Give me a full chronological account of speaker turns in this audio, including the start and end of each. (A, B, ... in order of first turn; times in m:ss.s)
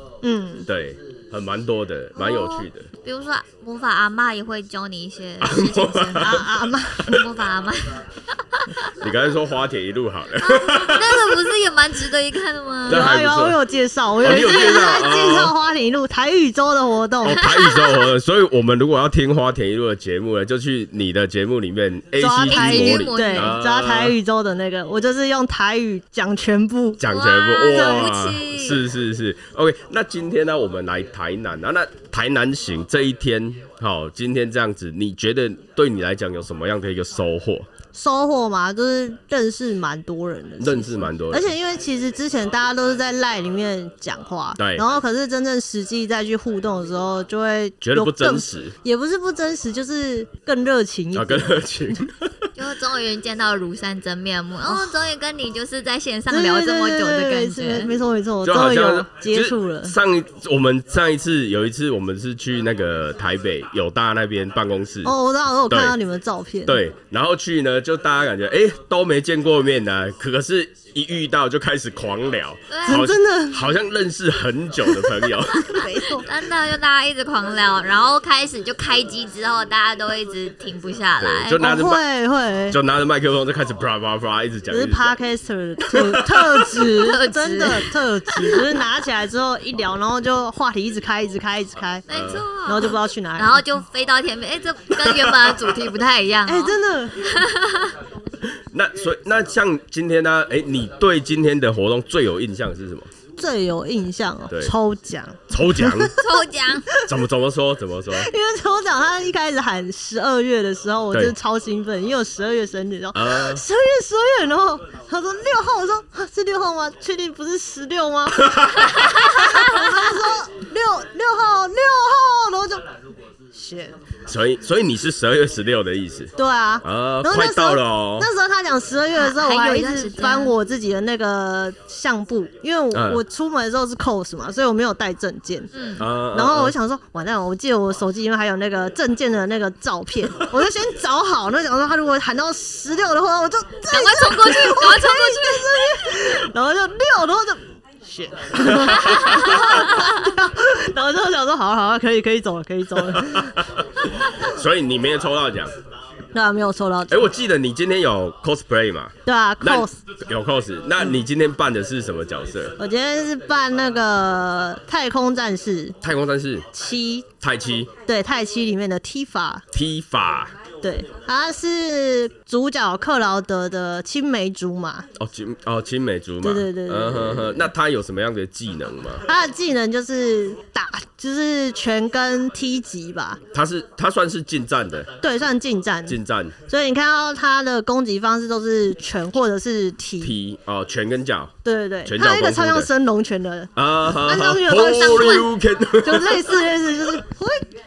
0:00.2-0:00.7 A
0:00.6-0:02.9 B
0:02.2-0:06.5 C
0:05.4-0:06.5 B
0:06.2-0:07.1 A
0:07.0-0:08.8 C
0:08.8-0:11.4 B
0:10.4-0:13.1 C
0:12.9-0:13.6 B
0:12.9-0:17.7 A
0:14.2-0:15.5 B
0:17.2-0:24.1 B
0:17.3-0:18.1 C
0:22.2-0:27.0 A
0:22.5-0:23.6 C
0:27.0-0:37.7 B
0:27.1-0:28.9 C
0:27.6-0:28.1 A
0:37.9-0:52.1 A
0:40.6-0:41.5 B
0:44.6-0:44.8 B
0:47.8-0:48.8 B
0:51.1-0:52.5 B
0:52.6-0:57.9 C
0:54.6-0:55.1 A
0:56.3-1:00.0 A
0:58.4-1:05.1 B
1:05.0-1:06.8 A
1:05.7-1:06.0 B
1:06.7-1:15.8 B
1:12.7-1:13.0 C
1:12.9-1:13.7 A
1:15.0-1:16.3 A
1:16.1-1:21.6 C
1:21.2-1:22.0 B
1:21.6-1:22.8 A
1:22.7-1:25.2 B
1:24.7-1:32.0 A
1:25.8-1:26.8 B
1:26.9-1:28.8 C
1:32.1-1:38.0 C
1:32.1-1:32.5 B
1:32.6-1:33.6 A
1:36.4-1:37.3 A
1:38.5-1:43.1 B
1:43.4-1:47.1 A
1:44.5-1:44.7 B
1:45.5-1:46.2 B
1:46.2-1:46.9 C
1:47.0-1:48.3 B
1:48.1-2:02.8 A
1:53.2-1:53.6 B
1:58.3-1:59.3 B
1:59.4-1:59.8 C
2:03.5-2:04.0 A
2:04.3-2:08.3 B
2:06.4-2:15.7 A
2:09.2-2:10.5 C
2:12.9-2:13.2 B
2:15.7-2:16.0 C
2:16.0-2:16.7 B
2:16.3-2:33.6 A
2:23.9-2:26.2 C
2:28.6-2:29.8 B
2:28.9-2:30.1 C
2:33.1-2:35.7 B
2:36.3-2:37.3 A
2:37.1-2:42.8 B
2:39.2-2:40.0 A
2:42.8-2:46.0 A
2:46.0-2:46.7 B
2:46.7-2:47.3 A
2:47.4-2:47.9 B
2:48.1-2:49.6 A
2:49.7-2:50.5 B
2:50.8-2:55.1 A
2:55.2-2:59.2 B
2:56.4-2:57.7 A
2:59.2-3:03.4 A
3:03.5-3:05.1 B
3:05.2-3:10.4 A
3:06.1-3:06.6 B
3:10.2-3:11.5 B
3:11.6-3:17.7 A
3:12.0-3:12.9 B
3:13.8-3:16.6 B
3:14.9-3:15.5 C